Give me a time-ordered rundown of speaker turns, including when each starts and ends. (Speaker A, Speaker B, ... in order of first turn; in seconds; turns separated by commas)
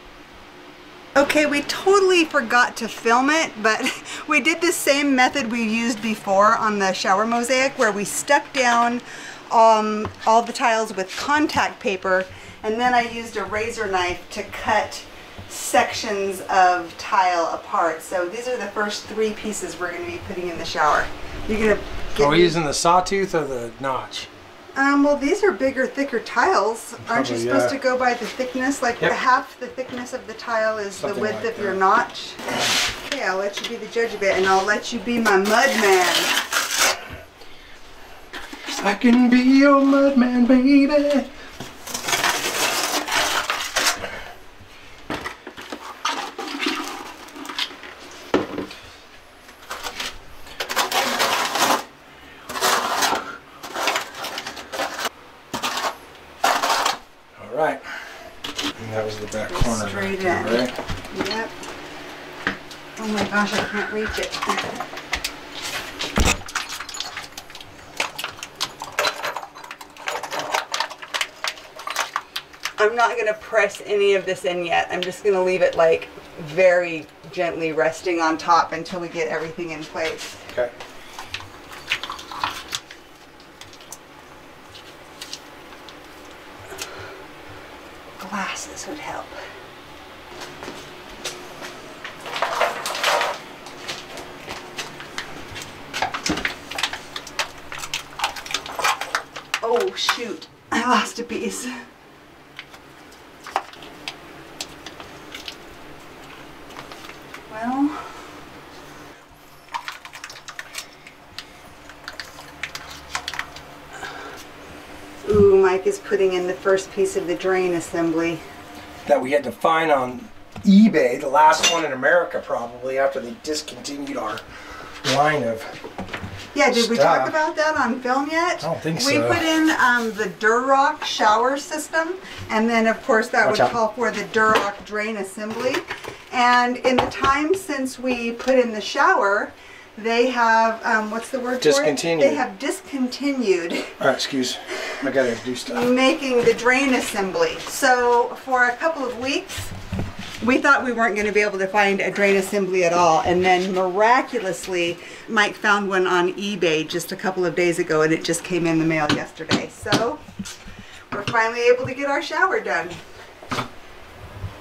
Speaker A: 1.1-22.6, Speaker B: 22.1-24.3, Speaker A: 24.7-36.4, Speaker B: 27.0-27.8, Speaker B: 30.9-31.8, Speaker B: 38.7-41.3, Speaker B: 57.4-60.7, Speaker A: 59.5-61.5, Speaker A: 63.0-64.8, Speaker A: 72.8-80.4, Speaker A: 88.2-89.4, Speaker A: 99.6-101.8, Speaker A: 107.5-108.2, Speaker A: 115.2-118.4, Speaker B: 119.0-124.4, Speaker B: 125.0-125.8, Speaker A: 126.5-144.0, Speaker B: 126.7-127.4, Speaker B: 128.6-129.4, Speaker B: 133.4-133.7, Speaker B: 141.6-142.4, Speaker B: 144.0-145.9, Speaker A: 145.7-149.7, Speaker A: 150.4-160.2, Speaker A: 161.1-163.0